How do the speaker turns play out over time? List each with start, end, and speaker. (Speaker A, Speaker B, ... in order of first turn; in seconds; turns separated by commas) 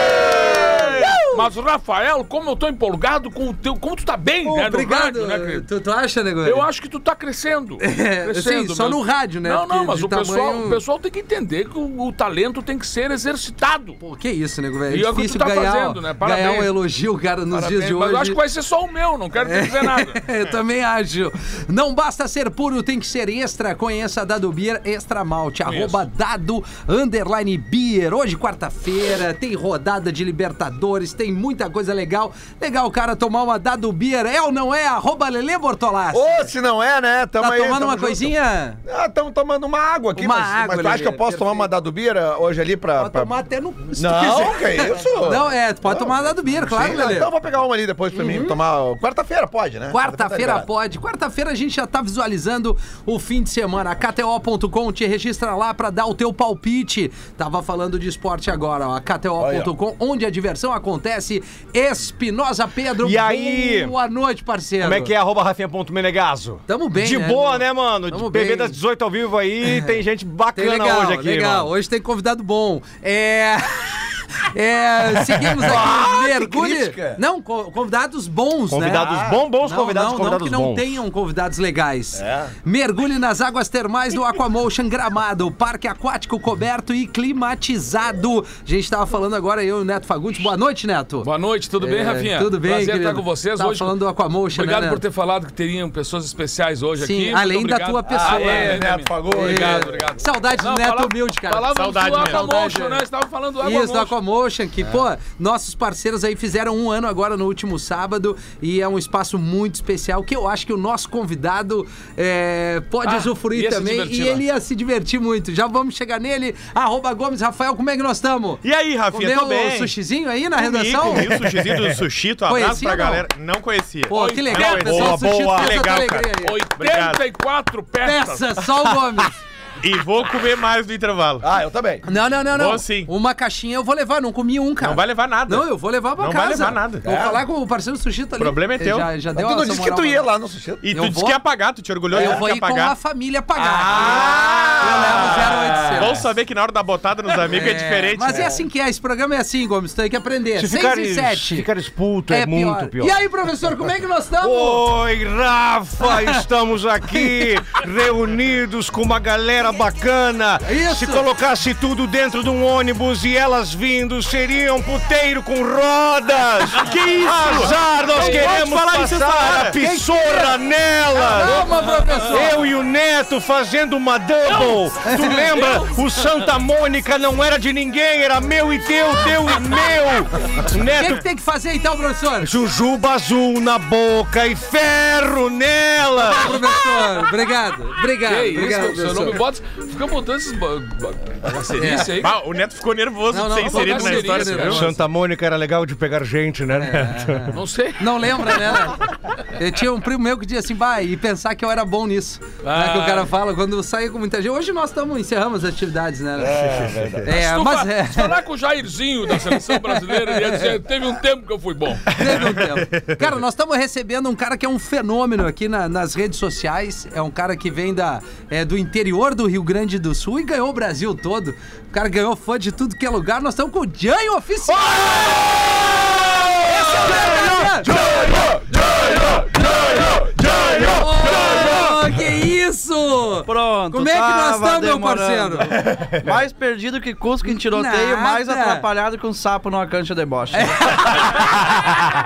Speaker A: 0.3-1.4, Speaker B: 0.5-5.7, Speaker A: 4.4-6.7, Speaker B: 6.4-14.0, Speaker A: 7.8-10.8, Speaker A: 14.0-18.4, Speaker B: 14.9-16.7, Speaker B: 17.5-20.3, Speaker A: 19.4-36.5, Speaker B: 25.6-26.0, Speaker C: 36.1-38.3, Speaker A: 37.4-38.8, Speaker C: 38.9-43.3, Speaker A: 40.1-41.7, Speaker A: 43.0-47.3, Speaker C: 43.9-50.7, Speaker A: 48.1-48.6, Speaker A: 49.9-65.1, Speaker C: 59.4-59.7, Speaker D: 63.0-63.9, Speaker D: 64.8-71.7, Speaker A: 66.7-68.8, Speaker A: 69.6-69.9, Speaker A: 70.5-79.1, Speaker C: 75.5-77.2, Speaker D: 78.7-81.0, Speaker C: 78.9-79.4, Speaker A: 79.6-91.3, Speaker C: 82.2-82.5, Speaker B: 91.2-94.0, Speaker A: 91.8-95.0, Speaker B: 94.5-104.2, Speaker A: 97.0-103.0, Speaker C: 98.2-100.0, Speaker E: 101.7-102.5, Speaker A: 103.6-121.3, Speaker B: 113.0-114.4, Speaker E: 118.6-119.9, Speaker E: 120.5-127.2, Speaker D: 121.4-122.0, Speaker A: 122.5-123.3, Speaker A: 124.1-126.6, Speaker B: 124.1-125.1, Speaker D: 124.8-125.8, Speaker B: 126.4-128.7, Speaker A: 128.0-129.3, Speaker E: 129.8-131.5, Speaker C: 131.4-132.0, Speaker A: 132.1-140.2, Speaker E: 132.5-133.1, Speaker E: 134.8-137.1, Speaker C: 137.0-137.4, Speaker E: 138.4-139.1, Speaker C: 139.3-140.9, Speaker E: 140.8-142.9, Speaker A: 140.9-141.4, Speaker A: 142.1-146.2, Speaker C: 142.1-142.4, Speaker C: 143.6-145.4, Speaker E: 143.9-148.5, Speaker A: 147.5-151.7, Speaker D: 150.6-153.2, Speaker A: 152.3-154.9, Speaker D: 154.4-181.2, Speaker A: 156.0-156.4, Speaker A: 160.7-161.3, Speaker E: 166.8-169.8, Speaker A: 167.4-168.5, Speaker A: 169.8-170.6, Speaker A: 171.2-172.6, Speaker B: 174.5-174.8, Speaker A: 175.1-175.9, Speaker B: 175.5-175.9, Speaker A: 180.7-182.5, Speaker D: 182.4-186.8, Speaker A: 186.2-189.4, Speaker B: 188.2-192.3, Speaker A: 191.7-192.2, Speaker E: 192.2-194.9, Speaker A: 193.3-194.9, Speaker B: 193.5-194.8, Speaker D: 194.7-197.6, Speaker A: 196.8-206.6, Speaker B: 197.5-198.5, Speaker B: 202.6-203.3, Speaker C: 206.5-207.2, Speaker A: 207.2-208.4, Speaker B: 207.3-212.1, Speaker A: 209.3-210.8, Speaker A: 212.1-225.2, Speaker A: 226.6-228.0, Speaker D: 227.1-227.8, Speaker C: 228.2-228.6, Speaker A: 229.1-235.8, Speaker F: 233.4-241.2, Speaker A: 237.5-238.8, Speaker A: 240.5-241.7